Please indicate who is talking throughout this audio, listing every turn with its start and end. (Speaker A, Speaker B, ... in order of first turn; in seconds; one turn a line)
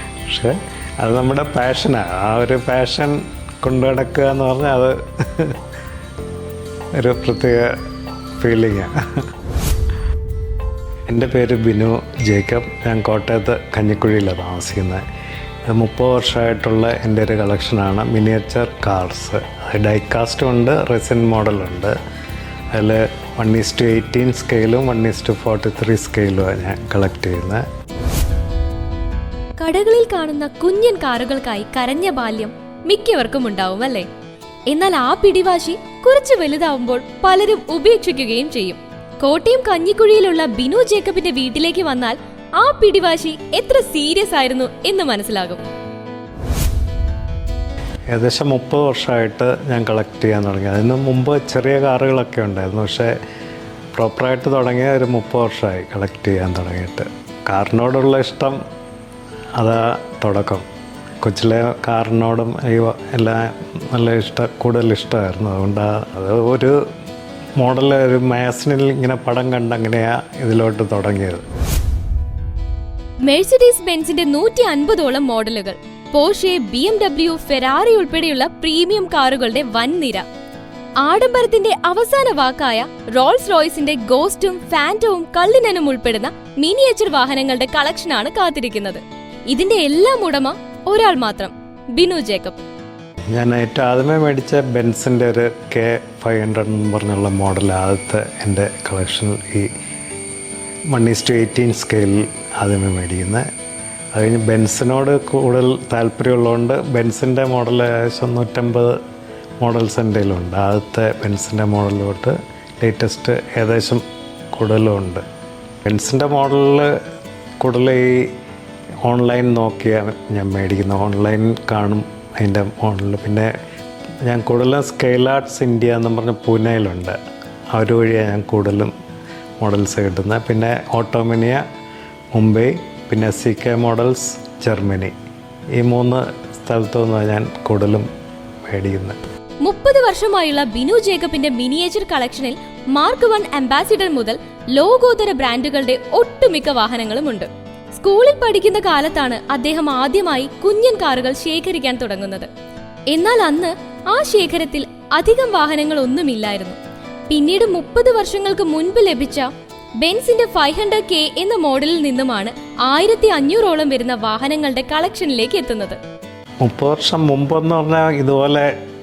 Speaker A: 0.3-5.6
Speaker A: 7.0-7.7
Speaker A: 8.4-8.9
Speaker A: 11.1-15.0
Speaker A: 15.7-21.9
Speaker A: 22.7-27.6
Speaker B: 29.6-34.1
Speaker B: 34.7-45.6
Speaker A: 48.1-53.1
Speaker A: 53.9-58.6
Speaker A: 59.6-60.6
Speaker A: 61.2-66.8
Speaker A: 67.6-71.4
Speaker B: 73.2-80.2
Speaker B: 81.0-92.6
Speaker A: 93.3-99.7
Speaker A: 100.9-103.4
Speaker A: 104.1-109.0
Speaker A: 109.6-115.2
Speaker A: 115.8-116.9
Speaker A: 117.6-118.3
Speaker A: 119.0-123.5
Speaker A: 124.2-127.2
Speaker A: 127.7-128.9
Speaker A: 129.6-131.6
Speaker A: 132.3-135.1
Speaker A: 135.8-138.1
Speaker A: 138.7-139.2
Speaker B: 139.6-152.5
Speaker B: 153.1-156.8
Speaker B: 157.3-159.5
Speaker B: 160.0-166.0
Speaker A: 166.6-168.7